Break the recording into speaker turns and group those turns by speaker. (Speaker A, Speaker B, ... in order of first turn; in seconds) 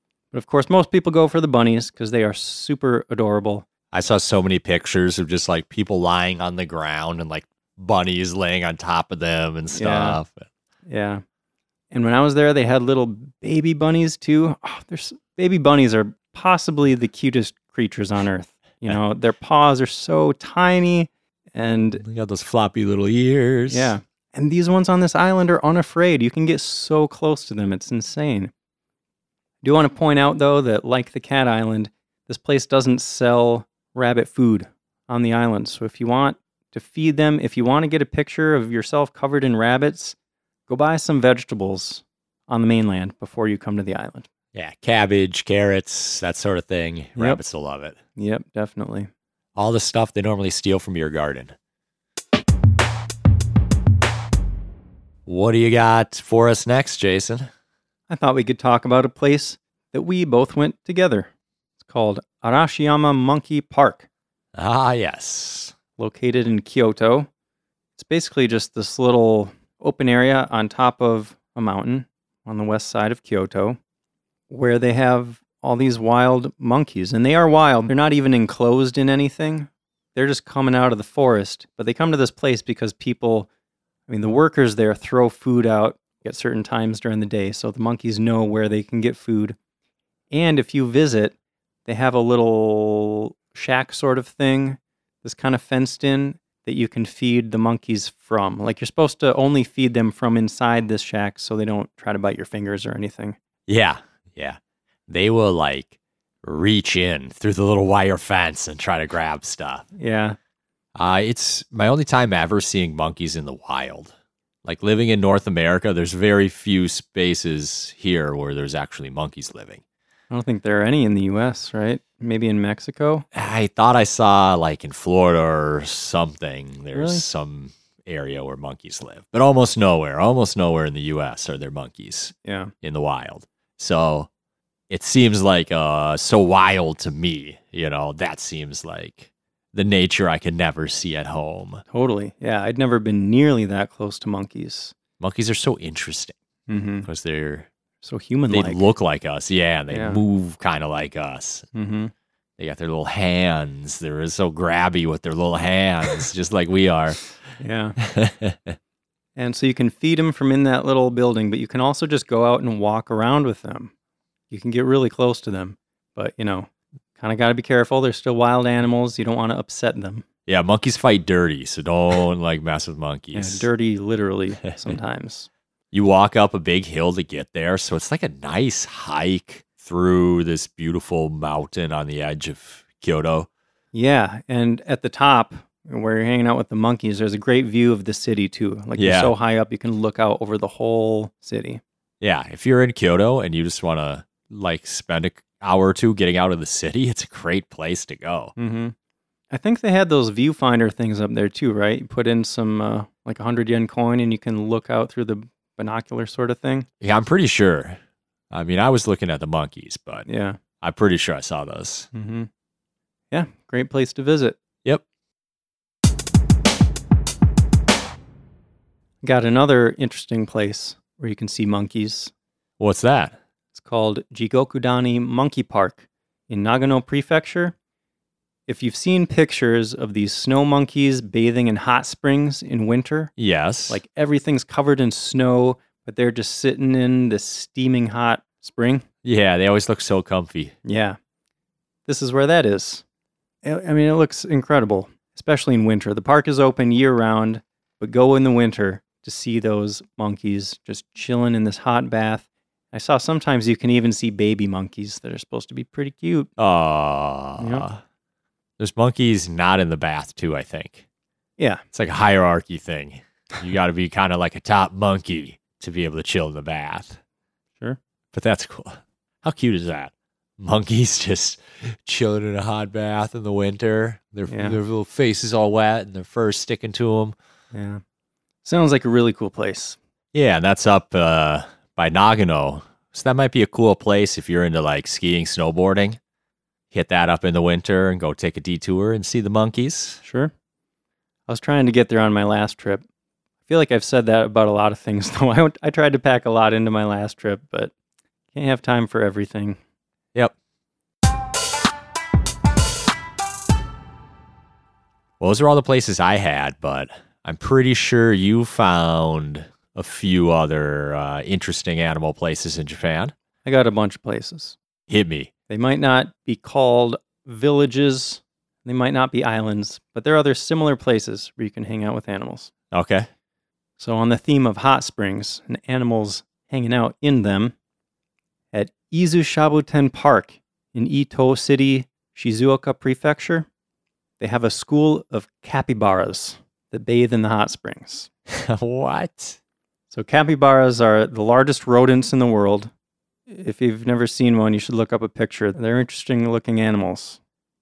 Speaker A: 0.3-3.6, 9.7-10.2, 10.8-11.2, 11.9-22.0, 23.7-28.5, 29.6-40.1, 40.7-44.3, 48.1-49.1, 58.1-61.3, 61.8-64.1, 66.0-67.3, 68.0-73.8, 74.5-83.5, 84.1-89.6, 90.3-91.3, 91.8-103.3, 109.9-110.4, 120.3-123.2, 126.9-127.2, 132.4-132.7, 141.9-144.9, 146.7-147.1, 148.0-148.9, 149.9-150.2, 151.7-152.1, 157.6-158.0, 159.3-163.9, 164.5-170.2, 173.3-175.5, 183.9-191.8, 198.6-198.9, 199.5-206.9, 210.2-210.6, 212.1-212.5, 213.3-214.6, 219.2-222.3, 223.7-227.7, 228.7-233.3, 233.9-239.0, 240.8-241.2, 242.1-243.0, 243.6-256.5, 257.6-257.9, 261.6-261.8, 274.5-274.8, 277.7-278.0, 278.6-280.0, 290.2-290.5, 291.5-293.0, 293.7-297.9, 298.5-299.8, 313.6-314.8, 315.7-322.7, 324.0-327.7, 328.7-333.7, 334.4-338.3, 340.1-342.9, 343.5-347.4
Speaker B: 3.9-10.5, 22.0-23.9, 44.5-48.0, 49.5-51.5, 55.2-57.5, 64.5-65.7, 103.7-109.8, 111.0-114.1, 114.6-119.8, 123.3-134.3, 134.9-141.8, 145.2-146.3, 147.0-147.7, 148.5-151.7, 152.6-157.3, 158.0-158.8, 170.5-173.7, 175.9-183.5, 189.0-189.3, 192.2-198.5, 207.0-208.0, 208.5-210.2, 210.8-212.1, 222.8-223.4, 233.4-234.0, 239.2-240.7, 256.6-258.0, 258.8-261.0, 261.9-267.2, 268.3-277.3, 280.3-286.2, 286.9-290.2, 305.4-313.3, 315.1-315.5, 322.9-323.3, 338.5-339.6